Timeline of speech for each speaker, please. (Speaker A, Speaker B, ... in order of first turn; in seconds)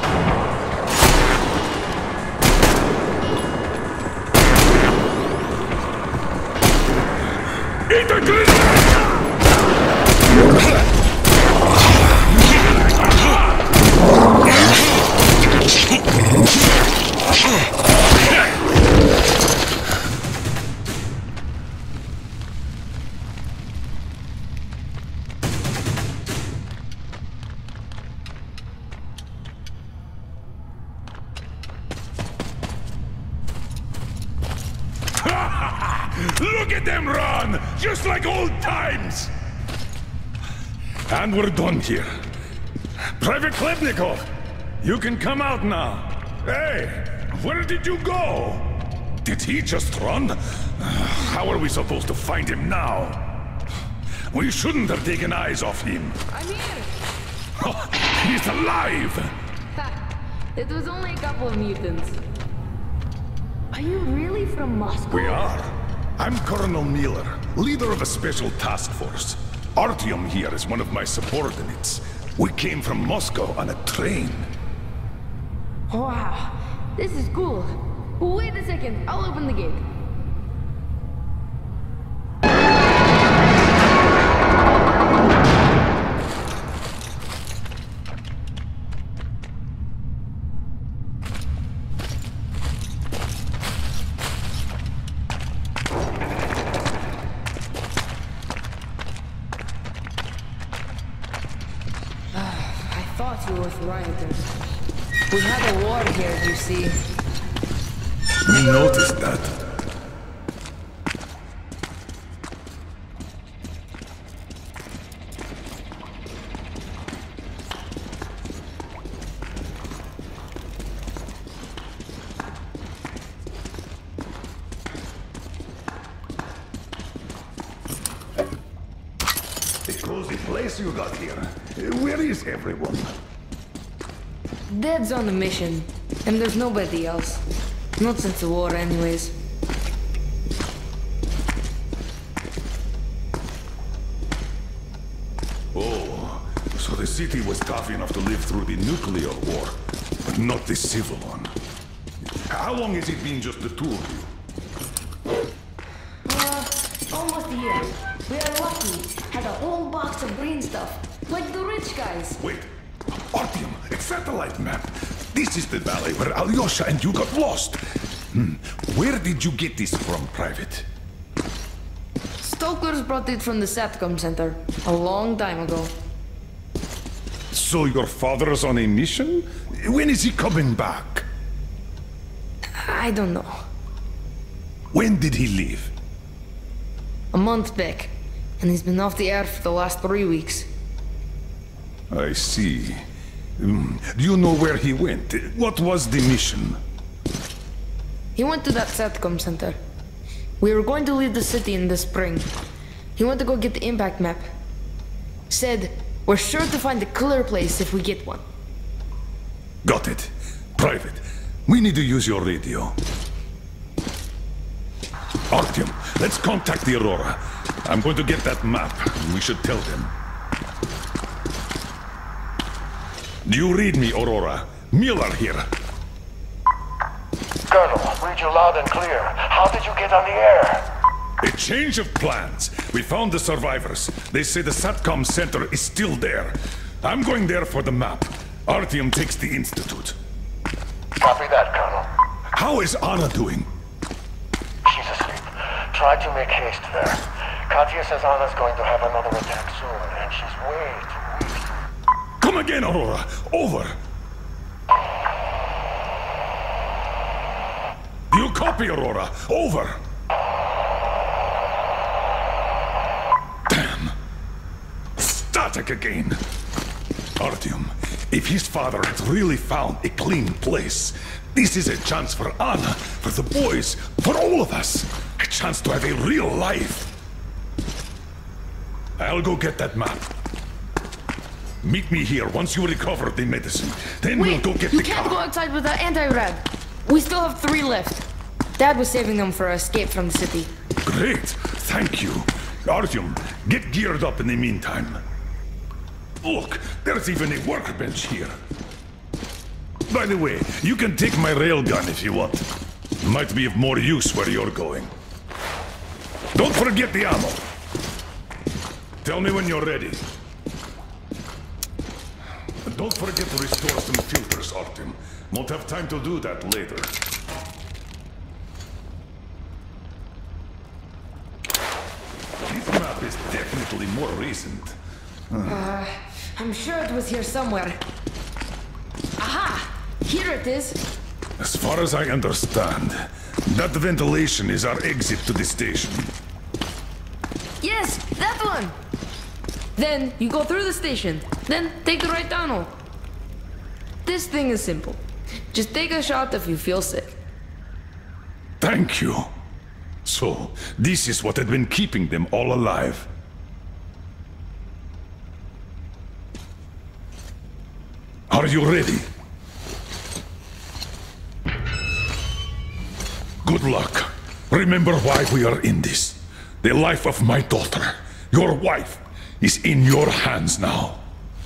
Speaker A: 7.9-9.1, 35.2-39.3, 41.1-42.1, 43.2-44.2, 44.8-48.7, 49.2-53.2, 54.3-56.2, 57.6-59.3, 65.1-74.5, 108.4-109.5, 129.9-133.1, 145.7-151.5, 152.3-154.3, 162.4-162.7, 163.3-167.8, 168.3-170.8, 177.5-181.2, 184.9-185.9, 192.1-193.0, 193.6-196.8, 209.8-212.9, 215.5-220.1, 223.4-225.7, 231.4-240.2, 242.5-243.7, 252.4-253.9, 258.3-260.0, 263.7-264.1, 265.2-266.4, 267.4-277.1, 279.2-280.3, 281.8-285.4, 291.0-295.2, 296.4-298.6, 300.1-302.6, 303.2-305.1, 306.5-307.6, 309.2-310.2, 312.8-317.1, 322.7-324.9, 325.5-325.8, 331.6-336.3, 348.8-349.5, 350.2-353.3, 358.5-359.3, 363.6-371.2
Speaker B: 56.3-56.9, 59.7-62.2, 63.7-65.5, 75.9-79.8, 102.3-104.5, 105.3-107.0, 134.7-137.4, 138.0-139.3, 156.2-162.4, 172.4-175.9, 182.8-183.6, 187.3-190.7, 198.3-199.8, 200.6-202.5, 203.2-204.5, 205.5-208.4, 284.3-288.2, 288.8-290.7, 325.6-328.0, 329.4-331.0, 337.8-338.9, 339.9-342.9, 344.2-347.4
Speaker C: 227.7-230.8, 241.2-242.1, 244.8-251.6